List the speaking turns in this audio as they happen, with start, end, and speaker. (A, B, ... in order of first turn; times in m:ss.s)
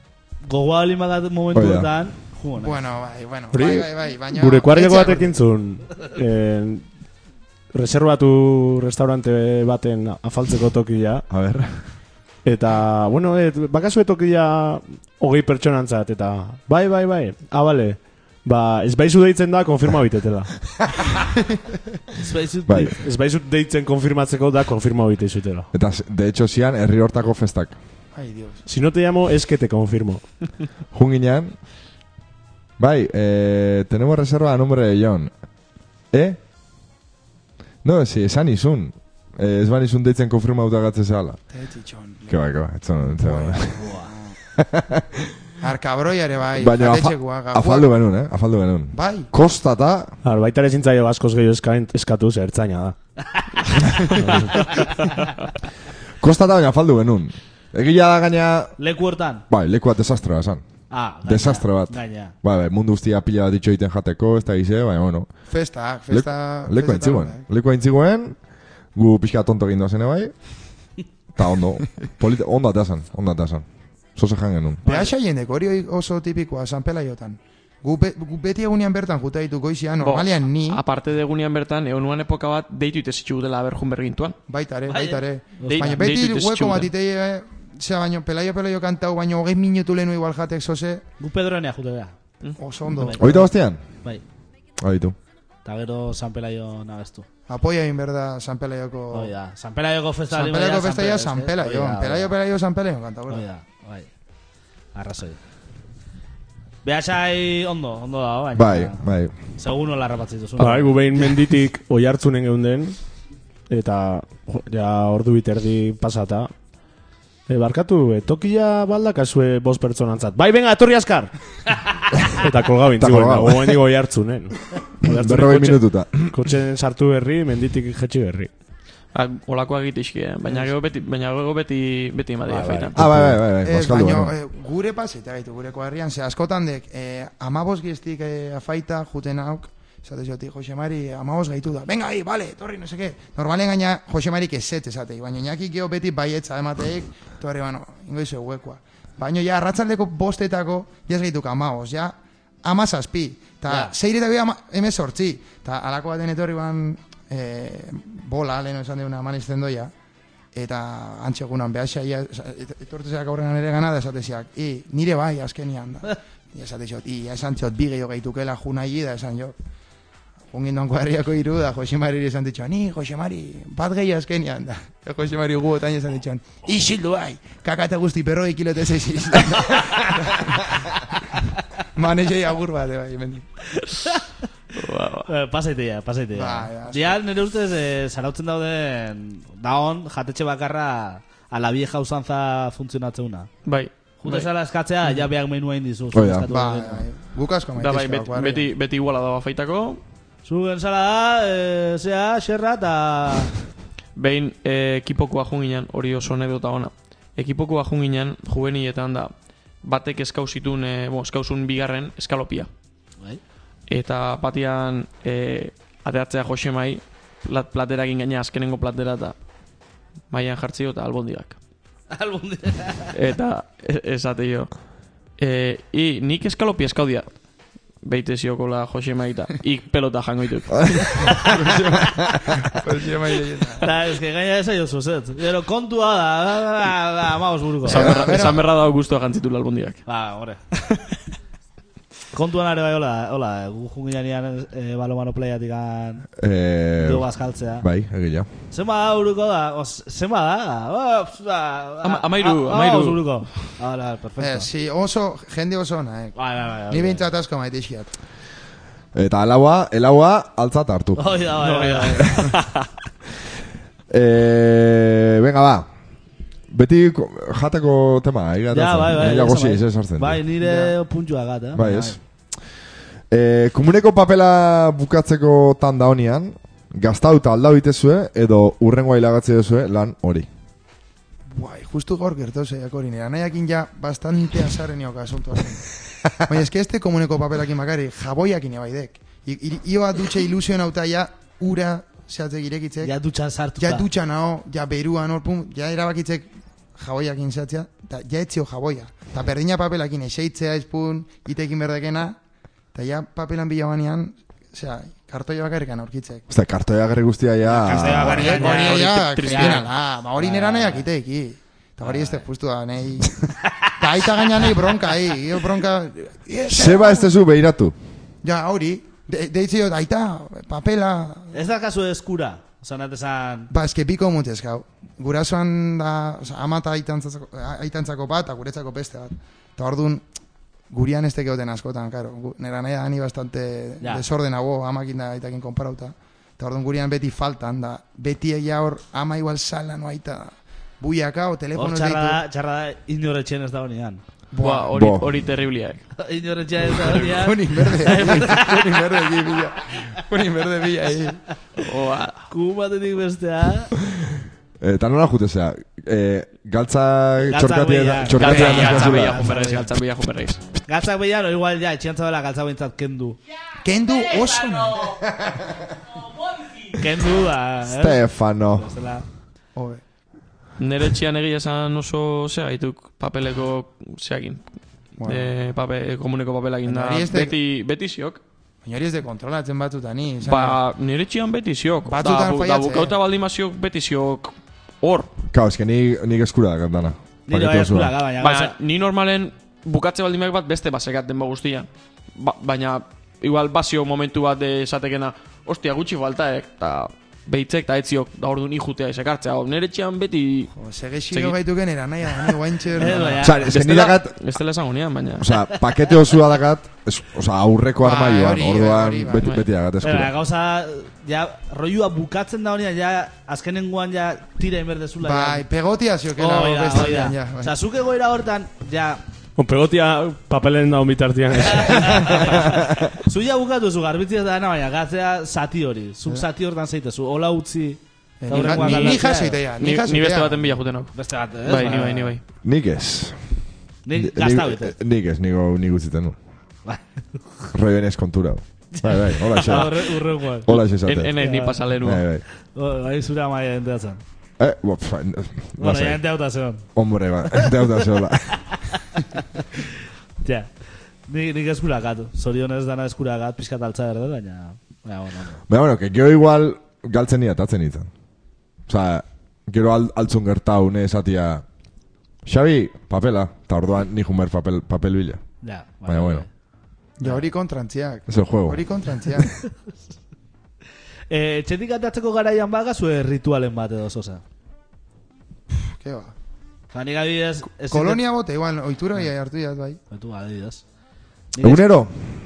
0:00.4-0:02.8 A
0:01.5-0:01.9 B
0:02.6-0:05.4 C
0:03.5-0:06.9 D
0:07.7-0:11.3 D
0:11.3-0:11.6 B
0:12.4-0:20.5 D
0:22.2-0:23.0 A
0:23.0-0:25.7 D
0:25.7-0:27.8 B
0:28.1-0:28.6 C
0:28.7-0:30.2 D
0:30.9-0:31.6 B
0:32.8-0:35.3 B
0:36.1-0:36.4 B
0:37.8-0:41.4 B
0:41.5-0:42.4 C
0:42.3-0:43.8 B
0:43.2-0:44.3 C
0:43.8-0:44.1 A
0:44.6-0:45.3 B
0:45.6-0:47.9 C
0:46.6-0:50.1 B
0:48.9-0:49.3 C
0:50.2-0:53.0 D
0:54.2-0:54.7 D
0:54.8-0:55.2 A
0:56.2-0:58.7 B
0:58.8-0:59.4 A
0:59.5-1:00.6 B
1:00.9-1:02.4 A
1:01.2-1:05.3 B
1:05.5-1:07.4 C
1:06.1-1:08.4 B
1:09.0-1:10.6 B
1:11.4-1:13.6 B
1:14.2-1:14.9 B
1:14.8-1:20.8 C
1:14.9-1:15.1 A
1:20.0-1:24.4 E
1:24.5-1:31.0 C
1:24.9-1:26.0 A
1:25.7-1:26.9 E
1:31.2-1:32.2 A
1:32.6-1:33.4 C
1:32.9-1:34.2 A
1:33.2-1:33.8 B
1:34.8-1:35.2 B
1:35.6-1:37.3 A
1:37.5-1:39.3 C
1:39.1-1:42.3 A
1:40.3-1:43.4 C
1:43.3-1:44.1 A
1:45.0-1:45.4 A
1:46.8-1:49.0 A
1:48.6-1:49.3 B
1:49.6-1:51.0 A
1:50.6-1:53.0 D
1:53.7-1:56.5 D
1:57.5-2:08.5 D
2:03.0-2:03.8 B
2:05.0-2:06.4 B
2:09.1-2:13.0 E
2:12.5-2:13.4 D
2:13.0-2:14.3 B
2:13.6-2:39.9 C
2:33.7-2:33.9 A
2:40.5-2:49.6 C
2:50.5-3:03.6 C
3:04.7-3:05.3 E
3:05.3-3:13.5 A
3:06.3-3:07.2 C
3:13.6-3:14.5 E
3:14.2-3:17.0 A
3:16.1-3:16.5 B
3:16.5-3:18.7 C
3:17.8-3:20.0 E
3:20.4-3:23.5 A
3:24.2-3:29.3 E
3:29.8-3:32.7 E
3:33.9-3:39.4 E
3:40.3-3:41.6 E
3:42.1-3:43.1 A
3:43.1-3:44.7 E
3:45.4-3:47.4 E
3:48.0-3:51.4 E
3:51.4-3:51.9 C
3:51.6-3:52.8 B
3:52.6-3:53.9 C
3:53.8-3:58.1 A
3:57.9-4:00.0 E
3:57.9-3:58.7 C
3:58.0-3:58.3 B
4:00.1-4:00.6 A
4:02.3-4:06.3 A
4:06.4-4:07.3 B
4:07.0-4:07.9 A
4:07.8-4:08.5 B
4:08.7-4:14.7 A
4:12.0-4:13.4 E
4:14.4-4:16.4 C
4:16.4-4:17.3 A
4:16.9-4:18.1 C
4:19.1-4:21.4 B
4:21.2-4:22.5 A
4:21.8-4:22.4 E
4:24.1-4:25.9 B
4:26.7-4:30.4 B
4:28.7-4:32.2 A
4:30.6-4:31.0 C
4:31.8-4:32.2 B
4:33.3-4:40.5 B
4:41.5-4:53.1 C
4:53.0-4:54.1 A
4:53.8-5:02.4 C
5:02.9-5:06.4 C
5:06.5-5:08.5 B
5:07.7-5:09.8 A
5:08.0-5:17.4 C
5:08.4-5:09.9 E
5:10.4-5:11.1 A
5:12.0-5:12.5 A
5:16.7-5:17.9 B
5:18.4-5:21.5 C
5:21.5-5:23.7 A
5:23.7-5:30.2 C
5:30.9-5:42.4 C
5:41.8-5:44.2 A
5:44.5-5:44.9 C
5:44.6-5:46.0 E
5:44.9-5:45.3 B
5:46.2-5:49.0 A
5:47.0-5:51.4 C
5:48.1-5:48.6 E
5:51.8-5:52.4 E
5:52.5-5:53.9 A
5:54.8-5:59.4 B
5:57.5-5:59.9 A
5:58.4-6:00.6 E
5:58.5-5:58.9 C
6:00.9-6:03.4 A
6:03.8-6:05.7 C
6:07.0-6:09.2 A
6:07.9-6:08.9 B
6:09.8-6:10.0 C
6:10.8-6:14.6 E
6:15.2-6:15.5 C
6:15.2-6:18.4 E
6:16.9-6:17.6 C
6:18.8-6:20.8 C
6:20.4-6:25.3 E
6:22.1-6:23.2 C
6:25.5-6:28.2 B
6:27.5-6:28.8 A
6:28.4-6:40.7 E
6:40.8-6:43.5 C
6:41.3-6:41.6 E
6:43.0-6:44.1 A
6:43.4-6:44.4 B
6:43.7-6:45.6 E
6:45.4-6:50.3 B
6:48.0-6:49.4 C
6:49.4-6:49.7 E
6:50.0-6:55.7 A
6:55.2-6:57.7 C
6:56.4-6:59.2 A
6:59.6-7:02.6 D
7:01.7-7:09.6 A
7:08.4-7:10.8 C
7:08.5-7:09.3 E
7:09.8-7:12.4 E
7:11.1-7:12.4 A
7:12.6-7:13.4 B
7:14.1-7:14.9 A
7:14.2-7:16.4 B
7:16.9-7:17.4 A
7:17.7-7:20.1 B
7:19.3-7:20.7 A
7:20.6-7:21.4 B
7:20.7-7:22.3 E
7:21.4-7:21.9 A
7:22.0-7:22.4 B
7:22.6-7:24.2 A
7:24.6-7:26.2 B
7:25.8-7:26.9 A
7:27.0-7:28.8 B
7:29.4-7:29.6 A
7:30.4-7:30.7 A
7:31.3-7:35.6 A
7:35.7-7:38.1 B
7:38.9-7:41.6 B
7:42.4-7:45.4 B
7:45.6-7:46.5 A
7:46.1-7:46.5 B
7:47.2-7:49.7 C
7:48.3-7:48.8 B
7:51.3-7:54.4 A
7:55.7-7:56.3 C
7:56.9-7:58.2 A
7:57.9-8:00.0 C
8:00.1-8:00.8 A
8:01.5-8:01.9 A
8:01.6-8:02.2 B